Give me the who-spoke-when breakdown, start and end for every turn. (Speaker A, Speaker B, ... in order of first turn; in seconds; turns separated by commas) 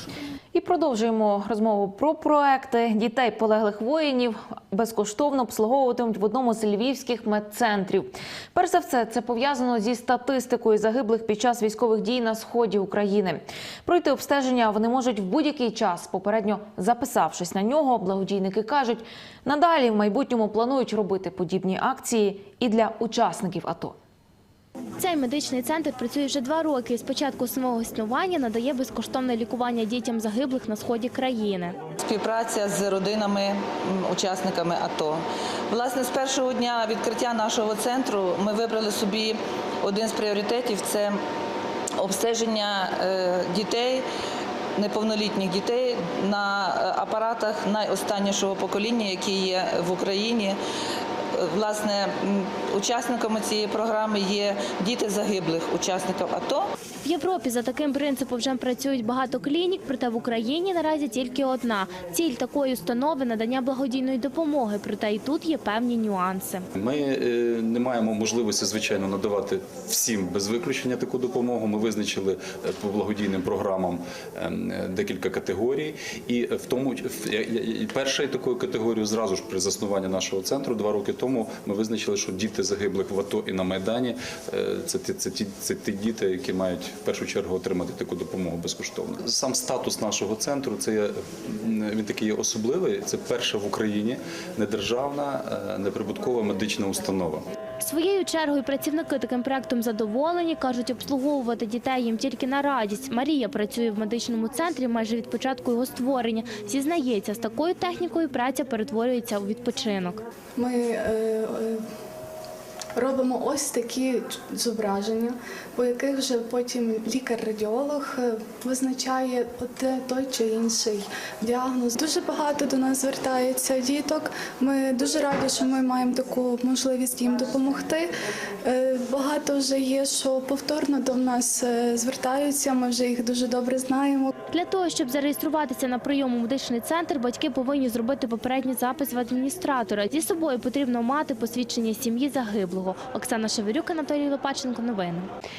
Speaker A: 0.5-24.0, Speaker B: 25.0-31.8, Speaker C: 32.0-41.2, Speaker C: 42.0-44.0, Speaker C: 44.8-50.6, Speaker C: 51.4-56.7, Speaker B: 57.0-66.7, Speaker D: 66.8-97.5, Speaker B: 97.8-110.2, Speaker E: 110.6-111.8, Speaker E: 113.0-128.1, Speaker E: 128.6-134.3, Speaker B: 134.5-145.3